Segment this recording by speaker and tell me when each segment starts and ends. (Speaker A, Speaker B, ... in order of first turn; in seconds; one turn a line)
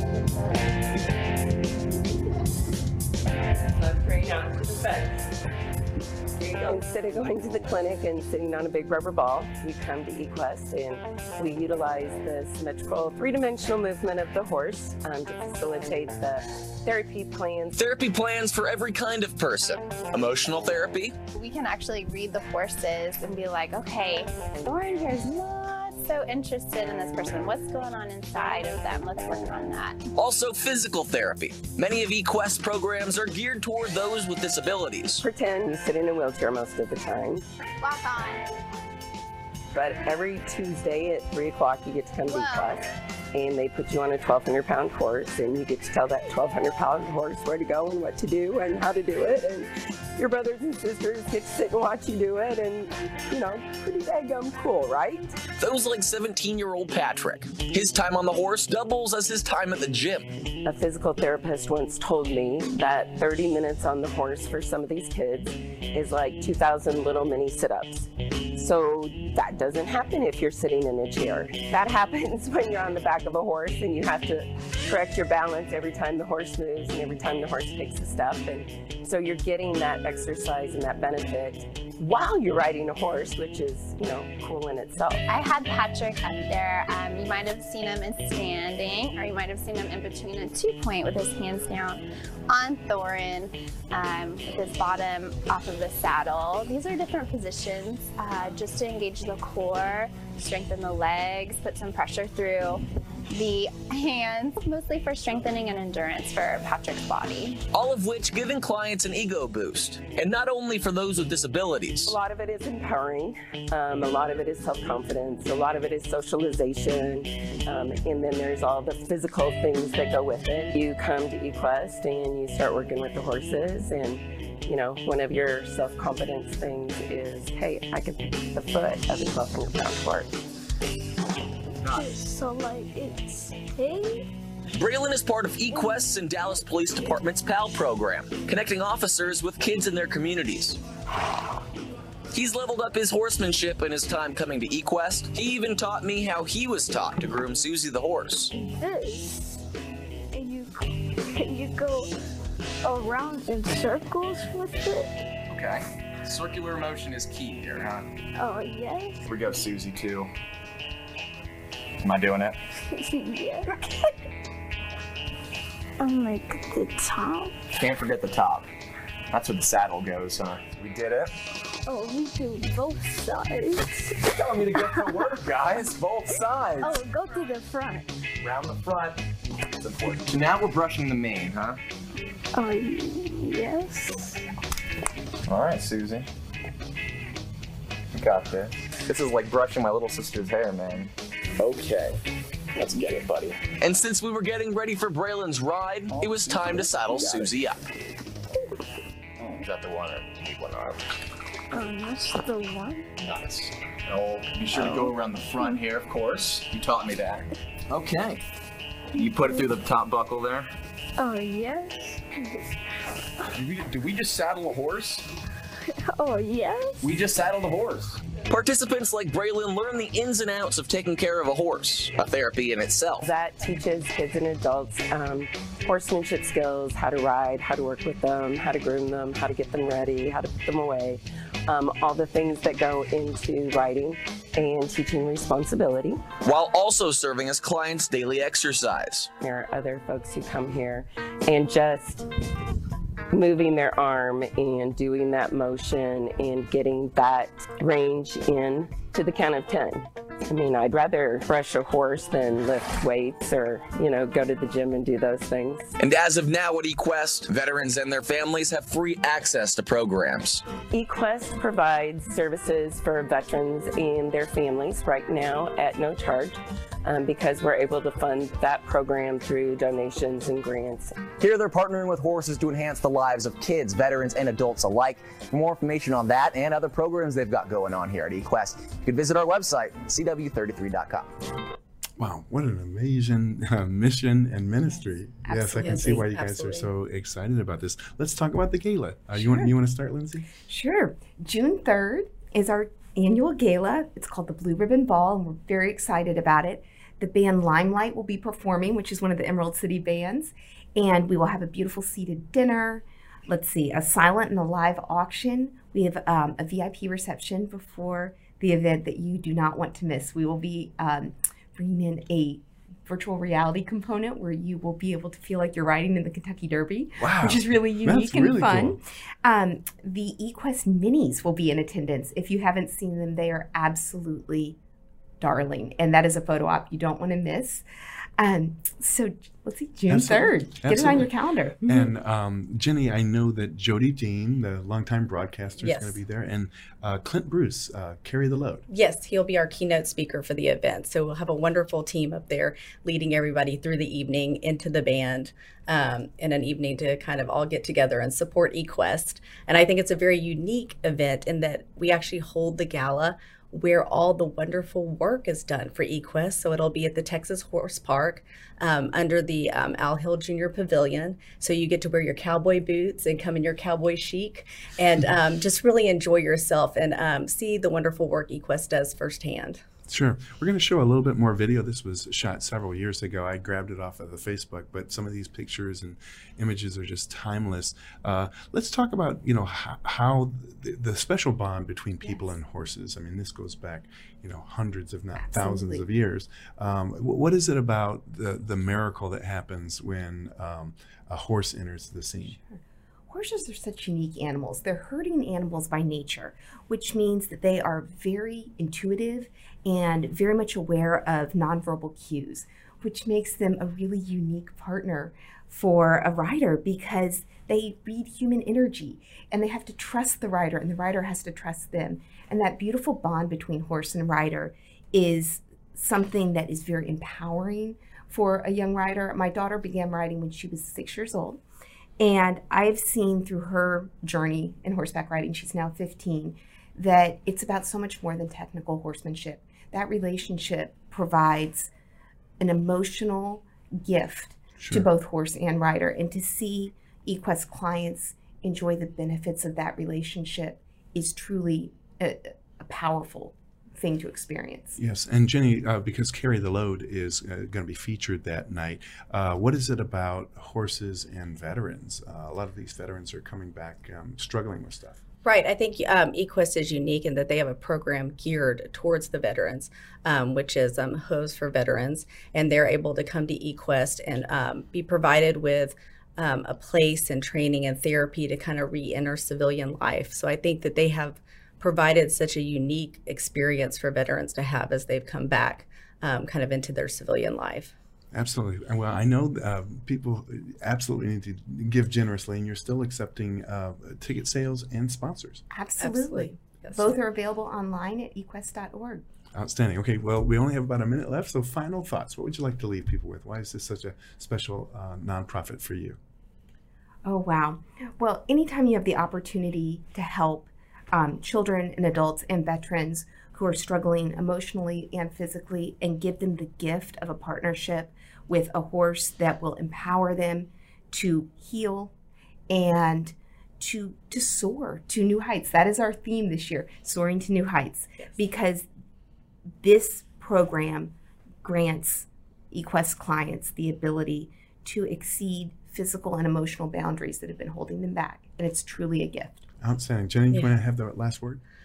Speaker A: 6.4-17.8
Speaker B: 17.8-21.1
Speaker C: 21.3-30.0
Speaker B: 30.2-35.2
Speaker A: 35.2-37.4
Speaker C: 37.8-38.5
Speaker A: 39.7-55.3
Speaker C: 42.2-42.7
Speaker B: 55.6-60.3
Speaker A: 60.6-85.2
Speaker C: 85.3-107.6
Speaker B: 107.7-112.2
Speaker A: 112.0-130.3
Speaker D: 131.8-134.2
Speaker B: 134.7-140.8
Speaker B: 142.3-148.5
Speaker D: 148.5-149.5
Speaker D: 150.3-152.1
Speaker D: 152.8-155.1
Speaker D: 158.3-159.2
Speaker E: 159.3-160.3
Speaker E: 162.0-162.5
Speaker D: 162.9-164.1
Speaker D: 166.0-167.5
Speaker E: 167.8-168.7
Speaker E: 169.3-171.3
Speaker D: 171.8-175.2
Speaker E: 175.2-176.2
Speaker D: 176.8-178.1
Speaker E: 180.5-181.6
Speaker D: 182.5-184.4
Speaker E: 185.5-186.2
Speaker E: 188.2-191.1
Speaker E: 191.7-192.1
Speaker E: 192.9-193.5
Speaker B: 193.8-197.8
Speaker D: 201.7-203.1
Speaker E: 204.3-205.6
Speaker D: 204.8-205.2
Speaker E: 206.5-207.3
Speaker D: 209.1-209.7
Speaker E: 209.2-210.7
Speaker D: 211.2-212.6
Speaker D: 216.0-217.2
Speaker E: 217.0-218.1
Speaker B: 218.5-223.2
Speaker A: 223.2-236.2
Speaker B: 236.4-239.3
Speaker A: 239.4-242.3
Speaker A: 243.3-255.9
Speaker B: 256.0-260.6
Speaker A: 260.9-271.1
Speaker F: 271.4-281.3
Speaker G: 282.2-290.5
Speaker H: 285.4-286.2
Speaker I: 285.6-286.9
Speaker H: 289.3-289.7
Speaker H: 290.6-324.8
Speaker G: 317.2-319.0
Speaker H: 325.4-327.8
Speaker H: 328.4-332.1
Speaker G: 330.1-331.3
Speaker G: 331.9-338.8
Speaker I: 335.8-336.2
Speaker I: 338.9-369.8
Speaker G: 370.1-392.6
Speaker H: 385.5-386.1
Speaker H: 392.4-421.6
Speaker H: 422.2-431.9
Speaker H: 432.6-445.0
Speaker G: 434.8-435.1
Speaker G: 445.0-455.2
Speaker I: 455.4-477.9
Speaker G: 478.3-485.6
Speaker H: 485.7-489.2
Speaker I: 486.0-487.2
Speaker G: 489.6-496.2
Speaker H: 497.2-512.1
Speaker H: 512.7-518.9
Speaker H: 519.8-529.6
Speaker G: 529.8-531.6